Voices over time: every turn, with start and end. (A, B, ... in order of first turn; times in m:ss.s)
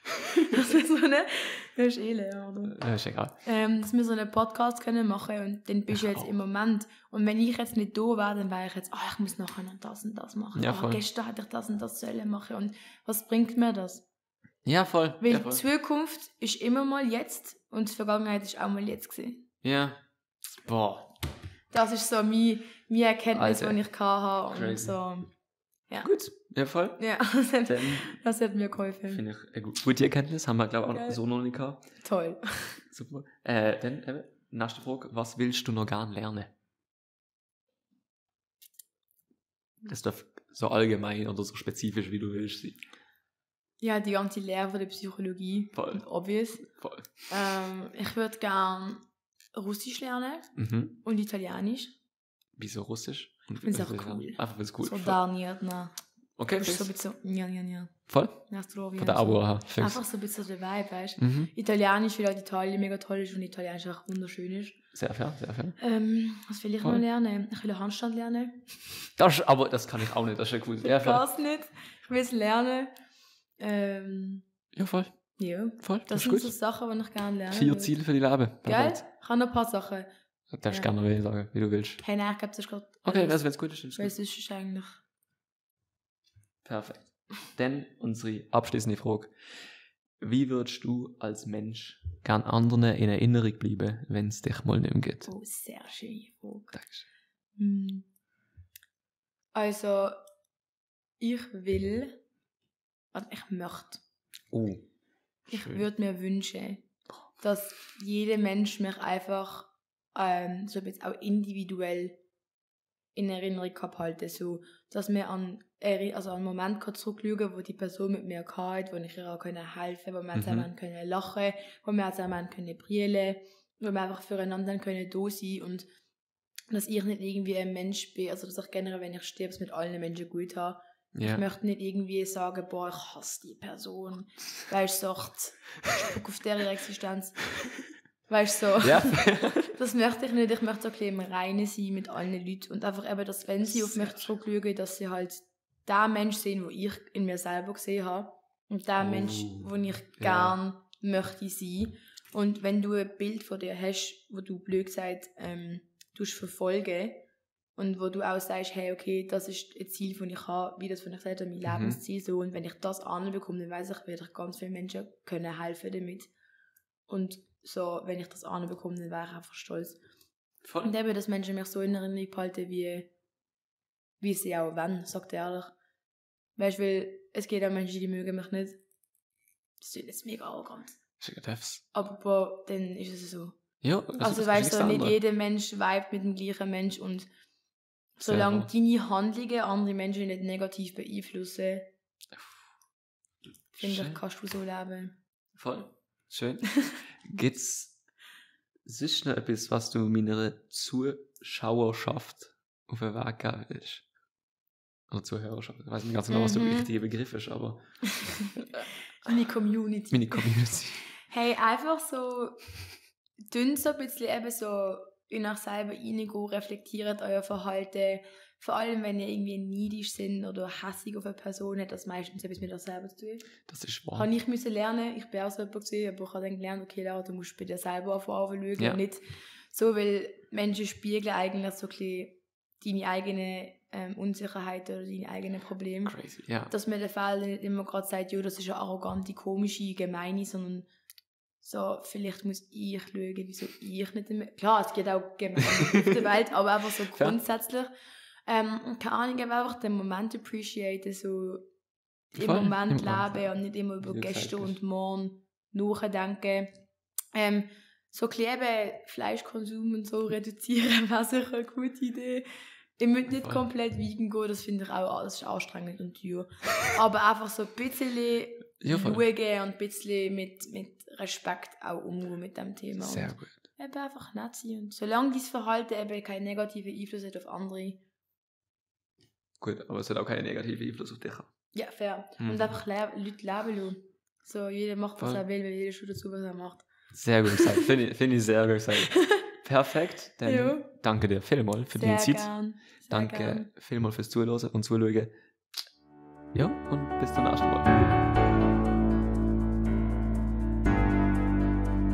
0:00.3-0:02.8 A
0:02.7-0:03.4 B
0:03.4-0:14.0 A
0:10.6-0:11.0 B
0:14.6-0:15.6 B
0:15.2-0:19.5 A
0:19.6-0:20.0 B
0:20.5-0:21.1 B
0:21.7-0:25.3 A
0:23.3-0:23.8 B
0:24.5-0:25.0 B
0:26.0-0:28.2 B
0:27.0-0:29.2 A
0:29.1-0:31.8 B
0:32.0-0:32.8 A
0:32.9-0:36.5 B
0:39.8-0:42.8 B
0:43.8-0:46.7 A
0:45.7-0:46.0 B
0:46.7-0:47.1 B
0:47.3-0:52.0 A
0:50.6-0:51.0 B
0:52.6-0:55.2 B
0:53.6-0:56.0 A
0:56.4-0:56.9 B
0:56.6-1:04.8 A
0:58.1-0:58.4 B
0:59.0-1:00.0 B
1:01.2-1:01.5 B
1:04.9-1:05.8 B
1:05.8-1:08.7 A
1:09.2-1:11.2 B
1:10.8-1:12.9 A
1:13.6-1:14.4 A
1:14.7-1:15.1 B
1:15.4-1:17.9 A
1:15.8-1:16.5 B
1:17.5-1:19.0 B
1:18.6-1:20.1 A
1:20.5-1:22.0 B
1:22.0-1:25.0 A
1:23.0-1:24.1 B
1:26.6-1:29.7 B
1:30.2-1:35.3 B
1:35.2-1:36.8 A
1:36.7-1:37.0 B
1:37.6-1:38.1 A
1:39.6-1:40.2 A
1:41.2-1:42.2 A
1:43.1-1:44.0 A
1:44.5-1:44.8 B
1:45.5-1:46.9 A
1:45.5-1:45.8 B
1:47.4-1:52.2 A
1:53.2-2:05.9 A
2:00.3-2:00.7 B
2:06.7-2:17.5 A
2:11.1-2:11.4 B
2:18.3-2:37.2 A
2:18.8-2:19.7 B
2:23.7-2:24.2 B
2:29.0-2:30.6 B
2:37.8-2:46.3 A
2:41.7-2:42.0 B
2:47.1-2:50.0 A
2:50.6-2:50.9 B
2:50.8-2:53.1 A
2:54.2-2:55.7 A
2:56.6-2:58.8 A
2:59.8-3:01.0 A
3:01.2-3:01.8 B
3:01.9-3:03.6 A
3:03.8-3:05.2 B
3:04.2-3:07.3 A
3:08.2-3:11.9 A
3:08.3-3:08.7 B
3:12.3-3:12.6 B
3:13.7-3:15.2 A
3:13.8-3:14.2 B
3:15.5-3:18.0 B
3:18.8-3:24.0 B
3:25.1-3:27.8 B
3:26.3-3:26.9 A
3:28.1-3:30.5 A
3:30.1-3:31.0 B
3:31.2-3:32.6 A
3:33.4-3:43.5 A
3:43.7-3:44.3 B
3:44.1-3:56.2 A
3:56.0-3:56.7 B
3:56.7-4:00.9 A
4:01.6-4:07.9 A
4:05.6-4:06.2 B
4:08.5-4:11.7 A
4:12.3-4:16.7 A
4:12.4-4:13.4 B
4:14.0-4:14.7 B
4:17.3-4:22.4 A
4:23.0-4:38.0 A
4:28.8-4:29.2 B
4:33.0-4:33.6 B
4:39.6-4:41.5 B
4:41.7-4:46.9 A
4:42.4-4:42.8 B
4:47.1-4:52.5 B
4:47.5-4:47.9 A
4:49.1-4:49.5 A
4:50.4-4:50.9 A
4:51.9-4:53.7 A
4:53.1-4:55.3 B
4:56.5-4:58.0 B